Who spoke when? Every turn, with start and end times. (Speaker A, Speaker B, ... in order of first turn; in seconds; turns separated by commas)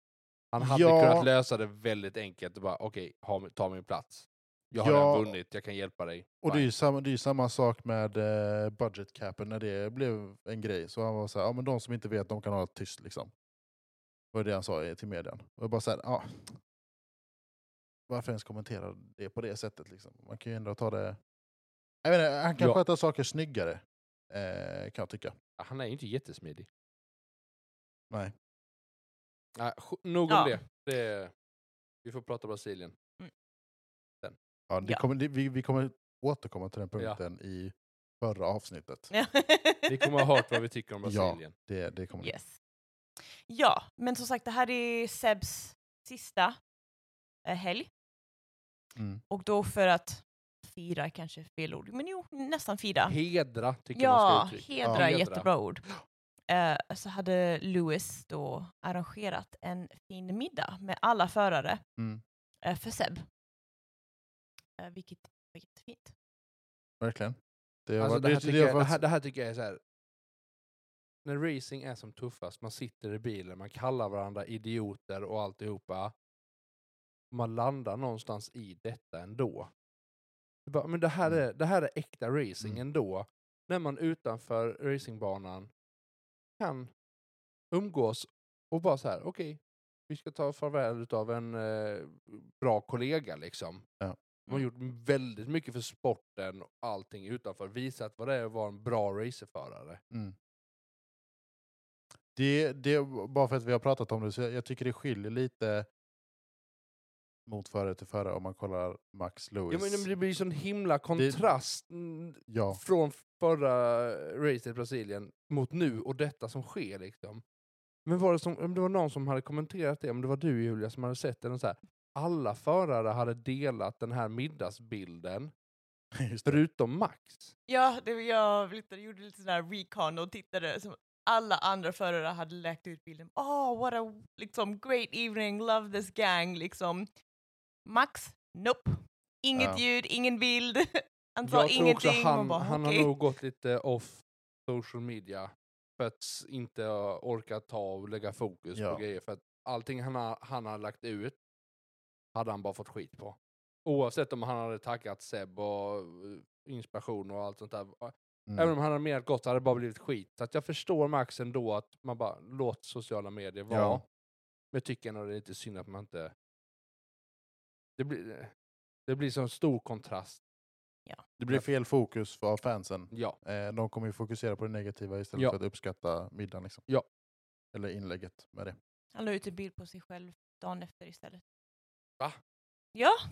Speaker A: 0.5-6.7, Speaker B: 0.6-1.3, Speaker B: 4.7-5.3, Speaker B: 6.4-13.3, Speaker B: 14.3-16.6, Speaker B: 18.1-21.2, Speaker B: 22.0-25.4, Speaker A: 25.6-26.7, Speaker A: 29.6-31.3, Speaker C: 30.3-30.6, Speaker A: 32.0-32.9, Speaker B: 34.7-39.1, Speaker C: 39.1-40.4, Speaker A: 39.9-41.5, Speaker B: 41.0-42.3, Speaker C: 42.2-42.6, Speaker C: 43.5-46.6, Speaker C: 47.4-47.9, Speaker B: 49.0-49.2, Speaker C: 49.3-53.1, Speaker A: 53.1-55.5, Speaker C: 53.9-55.8, Speaker C: 56.5-61.8, Speaker B: 62.0-62.2, Speaker C: 62.6-63.2, Speaker C: 64.8-66.1, Speaker B: 67.0-69.0, Speaker A: 68.0-69.8, Speaker A: 71.2-76.1, Speaker A: 77.3-79.7, Speaker A: 80.7-85.7, Speaker A: 86.6-86.9, Speaker A: 87.7-93.8, Speaker A: 94.5-100.0, Speaker B: 102.3-105.9, Speaker B: 107.5-110.1, Speaker A: 109.7-117.4, Speaker B: 111.2-111.4, Speaker B: 112.5-112.8, Speaker A: 118.0-125.5, Speaker B: 126.2-126.6, Speaker A: 126.5-127.5, Speaker C: 127.7-137.1, Speaker C: 137.8-143.1, Speaker B: 139.6-139.8, Speaker A: 141.4-151.4, Speaker B: 148.7-149.0, Speaker A: 152.3-164.0, Speaker B: 158.5-158.7, Speaker B: 163.7-164.0, Speaker A: 164.7-166.3, Speaker A: 168.0-168.5, Speaker A: 169.1-170.4, Speaker B: 171.4-176.8, Speaker A: 173.1-173.4, Speaker B: 177.7-178.8, Speaker C: 179.1-181.4, Speaker C: 182.9-183.2